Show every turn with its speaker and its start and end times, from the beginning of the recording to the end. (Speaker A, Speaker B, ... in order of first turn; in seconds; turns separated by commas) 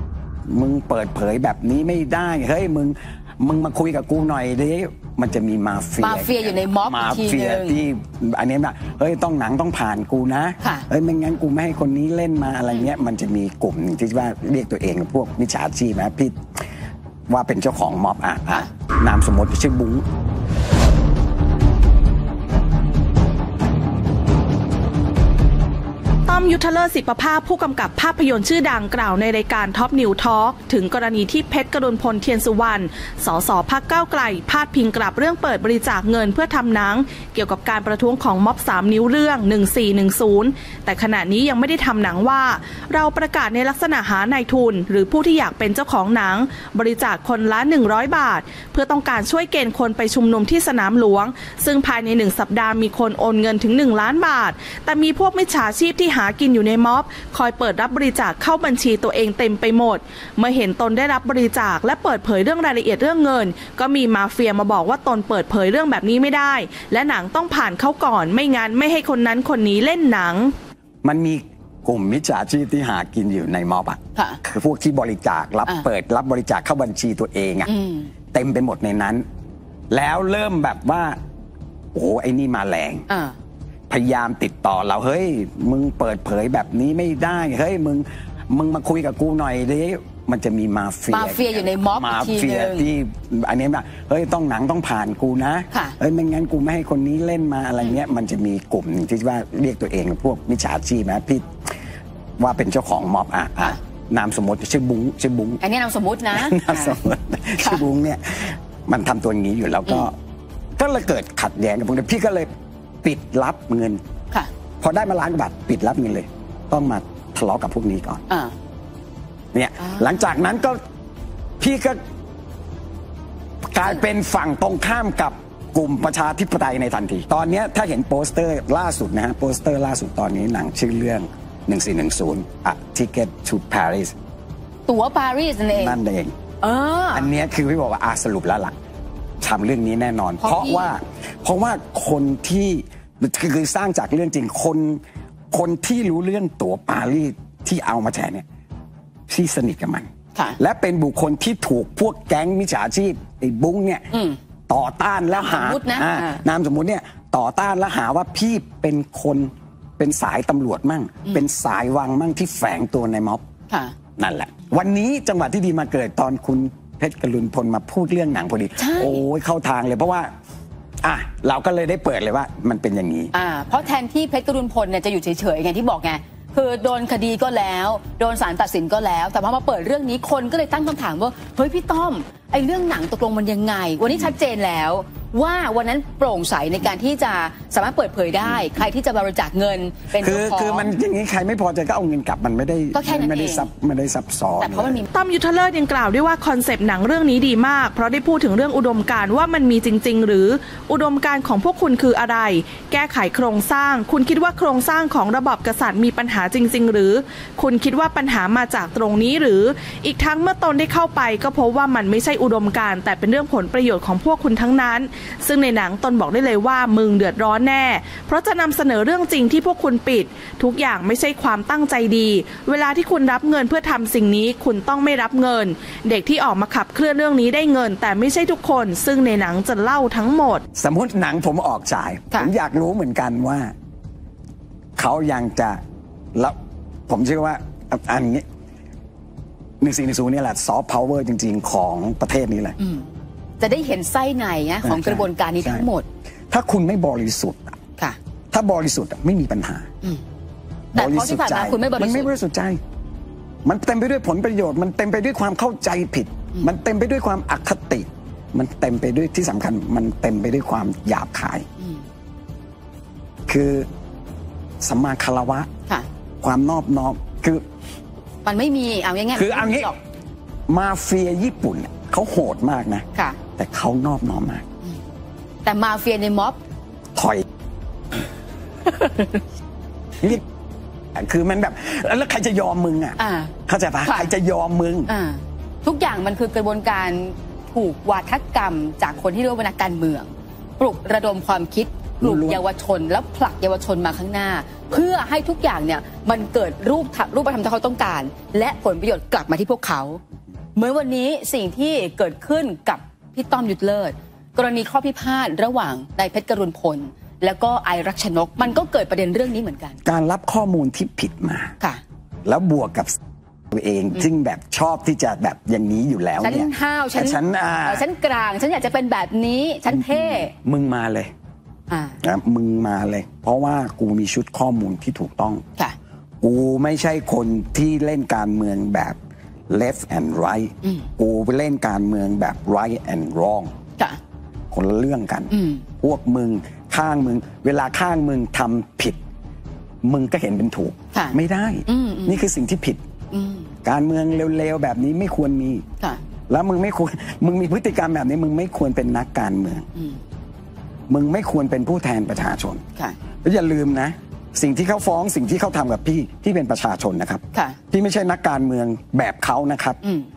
Speaker A: 0.5-16.4, Speaker B: 6.0-7.8, Speaker B: 10.6-10.9, Speaker A: 17.3-20.1, Speaker C: 26.3-70.5, Speaker A: 71.0-77.7, Speaker B: 74.2-74.4, Speaker B: 77.7-78.1, Speaker A: 78.3-79.2, Speaker A: 79.9-81.2, Speaker A: 81.9-83.1, Speaker B: 83.1-83.4, Speaker A: 83.9-101.5, Speaker B: 91.1-92.9, Speaker B: 95.7-96.0, Speaker A: 102.4-105.6, Speaker B: 105.6-107.0, Speaker A: 106.3-110.2, Speaker B: 107.6-107.8, Speaker A: 110.8-112.5, Speaker A: 113.0-114.0, Speaker A: 114.8-118.2, Speaker B: 118.3-118.5, Speaker A: 119.5-120.8, Speaker A: 121.6-122.0, Speaker A: 123.7-134.2, Speaker B: 134.9-136.0, Speaker A: 135.7-136.4, Speaker B: 136.6-137.3, Speaker A: 137.1-138.8, Speaker A: 139.4-148.4, Speaker B: 140.4-140.9, Speaker A: 149.3-154.1, Speaker B: 154.1-154.4, Speaker A: 154.7-163.4, Speaker B: 155.3-156.4, Speaker B: 163.7-163.9, Speaker A: 164.2-170.3, Speaker B: 168.8-169.2, Speaker A: 171.0-173.3, Speaker B: 173.3-190.9, Speaker A: 190.2-195.0, Speaker B: 192.9-193.7, Speaker B: 194.6-195.1, Speaker C: 195.1-230.6, Speaker A: 230.8-233.7, Speaker A: 235.0-235.8, Speaker A: 237.1-238.4, Speaker A: 239.8-242.8, Speaker B: 242.8-246.1, Speaker A: 244.8-245.9, Speaker A: 246.5-247.8, Speaker A: 248.5-249.9, Speaker B: 250.9-252.3, Speaker A: 250.9-252.8, Speaker A: 253.7-261.7, Speaker B: 261.8-262.1, Speaker A: 263.5-263.9, Speaker A: 264.8-265.7, Speaker A: 266.4-267.6, Speaker B: 268.4-270.0, Speaker A: 269.4-269.9, Speaker A: 270.7-274.6, Speaker B: 275.6-276.6, Speaker A: 277.1-277.4, Speaker B: 278.9-279.4, Speaker A: 281.1-285.1, Speaker B: 283.2-283.5, Speaker B: 284.1-284.3, Speaker B: 285.1-300.2, Speaker A: 292.2-292.6, Speaker B: 300.8-310.0, Speaker A: 310.0-311.8, Speaker A: 312.4-313.2, Speaker A: 313.7-318.0, Speaker B: 316.4-320.5, Speaker A: 319.9-321.3, Speaker B: 321.9-322.2, Speaker A: 322.2-325.6, Speaker A: 326.4-329.2, Speaker A: 329.7-333.7, Speaker A: 334.7-339.2, Speaker B: 335.5-335.9, Speaker A: 340.0-343.0, Speaker B: 341.1-342.5, Speaker B: 343.3-343.7, Speaker A: 343.8-345.9, Speaker A: 346.5-349.9, Speaker B: 349.9-350.2, Speaker A: 351.1-352.8, Speaker A: 353.4-360.0, Speaker B: 360.0-360.3